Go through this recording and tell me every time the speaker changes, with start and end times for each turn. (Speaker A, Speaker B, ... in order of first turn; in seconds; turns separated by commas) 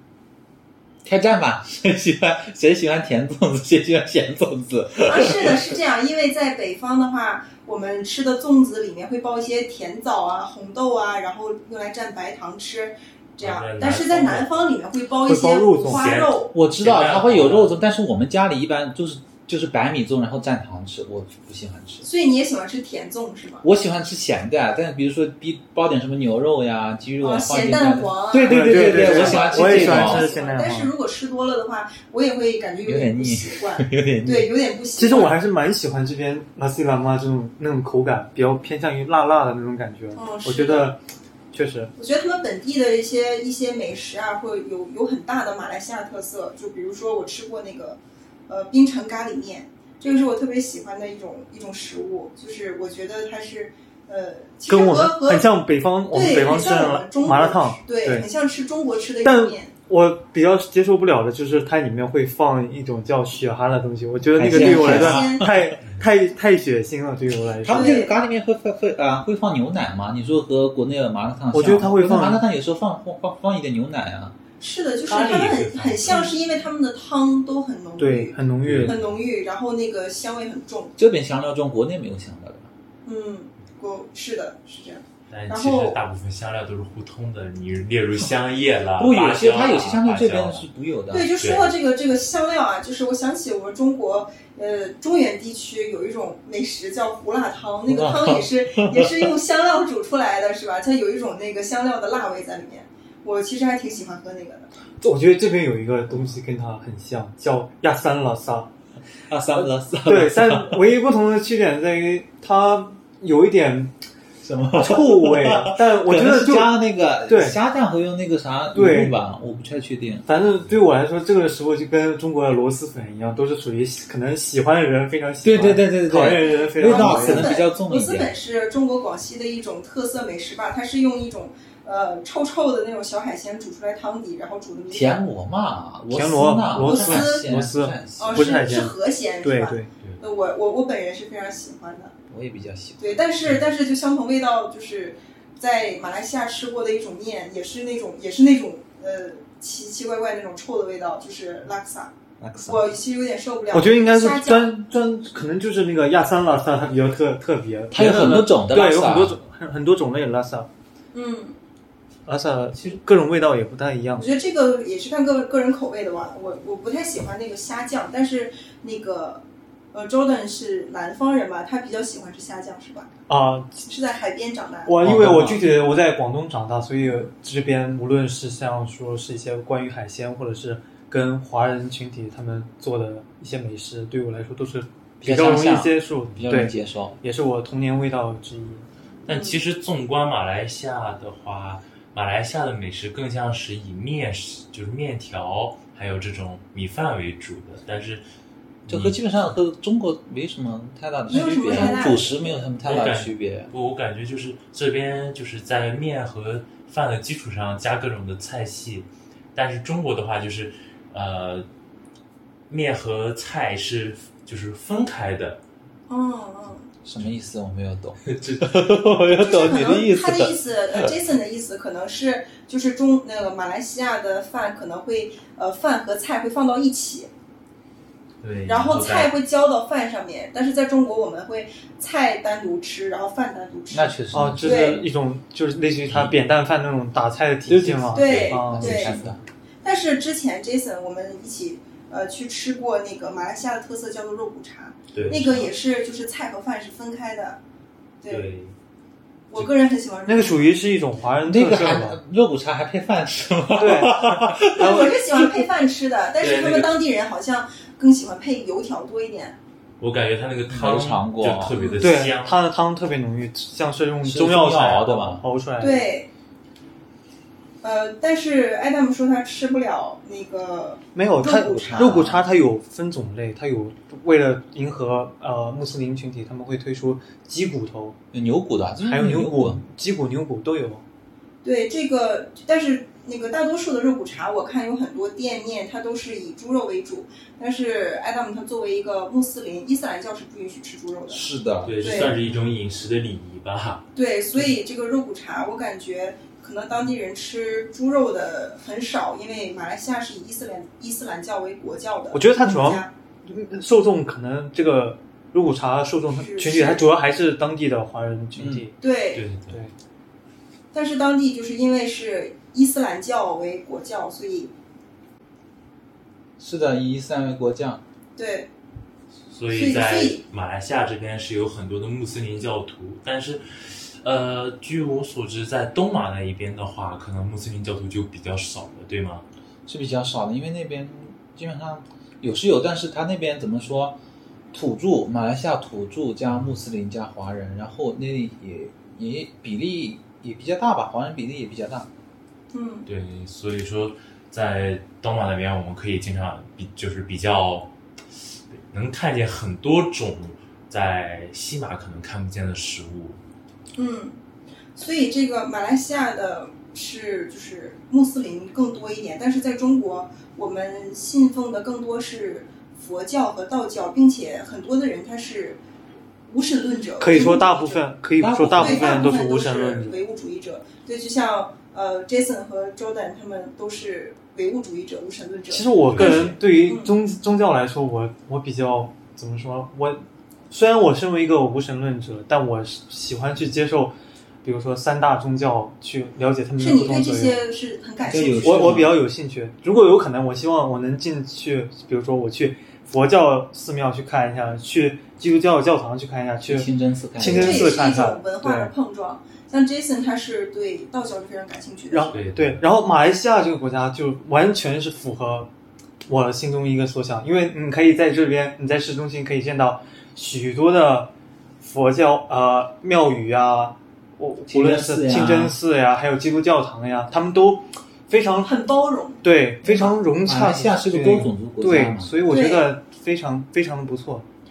Speaker A: 1.0-5.7, Speaker B: 5.0-16.5, Speaker C: 13.4-14.7, Speaker D: 15.2-16.1, Speaker C: 15.8-17.8, Speaker A: 16.5-22.1, Speaker B: 22.0-23.6, Speaker A: 23.6-30.3, Speaker B: 27.2-35.4, Speaker D: 28.4-30.9, Speaker A: 32.8-34.5, Speaker D: 35.0-41.9, Speaker B: 40.1-41.0, Speaker B: 42.0-55.5, Speaker D: 54.7-58.3, Speaker B: 56.1-59.7, Speaker D: 59.2-67.9, Speaker A: 64.3-65.5, Speaker B: 64.5-65.5, Speaker A: 67.6-74.3, Speaker B: 67.7-68.1, Speaker D: 71.5-72.4, Speaker B: 74.6-80.9, Speaker C: 75.0-76.7, Speaker D: 78.0-78.9, Speaker C: 78.6-79.2, Speaker A: 81.0-82.7, Speaker B: 83.0-86.0, Speaker C: 85.3-90.7, Speaker A: 89.0-91.3, Speaker B: 91.1-104.7, Speaker C: 91.4-91.7, Speaker A: 97.8-99.3, Speaker D: 105.0-108.7, Speaker A: 109.3-110.8, Speaker D: 110.0-113.9, Speaker A: 114.4-120.2, Speaker D: 114.7-116.7, Speaker D: 117.2-117.6, Speaker D: 118.7-119.2, Speaker D: 120.2-127.5, Speaker A: 125.4-128.3, Speaker B: 126.4-135.2, Speaker A: 134.9-138.7, Speaker D: 136.1-139.9, Speaker B: 136.8-137.6, Speaker B: 138.2-142.1, Speaker A: 142.3-143.2, Speaker B: 143.0-154.8, Speaker A: 152.4-152.9, Speaker D: 153.7-160.7, Speaker A: 157.9-159.4, Speaker B: 161.1-161.6, Speaker D: 162.3-164.3, Speaker B: 164.2-173.1, Speaker D: 173.3-173.8, Speaker B: 173.8-175.0, Speaker D: 174.8-188.8, Speaker A: 175.0-175.6, Speaker B: 177.0-177.3, Speaker A: 185.2-187.2, Speaker C: 189.2-198.2, Speaker B: 189.3-189.6, Speaker C: 198.8-199.2, Speaker A: 198.9-203.7, Speaker B: 201.3-202.7, Speaker D: 201.3-202.2, Speaker C: 202.8-211.7, Speaker C: 212.7-215.6, Speaker B: 216.1-216.9, Speaker A: 217.0-220.6, Speaker C: 218.2-219.2, Speaker B: 219.3-227.3, Speaker C: 228.4-229.3, Speaker B: 228.7-235.0, Speaker A: 233.9-234.9, Speaker D: 234.3-239.1, Speaker C: 236.1-236.4, Speaker A: 237.7-239.4, Speaker B: 238.1-247.6, Speaker C: 238.2-239.1, Speaker C: 245.1-245.7, Speaker B: 248.2-248.4, Speaker C: 248.3-248.7, Speaker B: 249.5-250.7, Speaker D: 250.2-252.2, Speaker A: 251.4-255.6, Speaker D: 253.8-254.9, Speaker B: 254.7-259.6, Speaker C: 256.4-257.0, Speaker C: 260.0-262.6, Speaker A: 260.7-261.7, Speaker B: 261.7-262.0, Speaker D: 262.0-266.1, Speaker A: 264.2-265.4, Speaker B: 265.8-266.3, Speaker B: 267.8-272.3, Speaker D: 271.1-278.2, Speaker A: 271.6-272.4, Speaker A: 278.3-279.8, Speaker D: 279.1-281.0, Speaker B: 281.6-291.4, Speaker A: 291.3-292.7, Speaker C: 291.8-294.1, Speaker B: 292.0-292.3, Speaker B: 294.1-303.1, Speaker D: 302.3-308.9, Speaker B: 306.3-307.1, Speaker A: 308.6-308.9, Speaker B: 309.0-309.5, Speaker C: 309.3-309.8, Speaker B: 310.9-314.7, Speaker A: 316.6-318.0, Speaker B: 318.4-318.7, Speaker C: 319.5-329.4, Speaker B: 319.7-320.4, Speaker A: 329.9-334.2, Speaker A: 334.7-342.1, Speaker B: 342.7-343.1, Speaker C: 343.1-347.9, Speaker C: 348.9-353.4, Speaker B: 353.9-354.4, Speaker B: 354.9-365.8, Speaker B: 366.5-368.1, Speaker D: 367.2-370.2, Speaker A: 368.4-369.4, Speaker B: 368.8-377.1, Speaker D: 375.7-387.6, Speaker C: 376.1-376.6, Speaker B: 386.8-389.1, Speaker A: 388.2-389.2, Speaker D: 388.6-398.9, Speaker A: 396.6-397.9, Speaker B: 397.4-402.4, Speaker D: 402.1-405.7, Speaker C: 402.3-402.8, Speaker D: 406.3-418.7, Speaker A: 414.7-415.8, Speaker B: 418.6-419.4, Speaker D: 419.4-424.4, Speaker A: 419.8-422.4, Speaker B: 422.5-422.9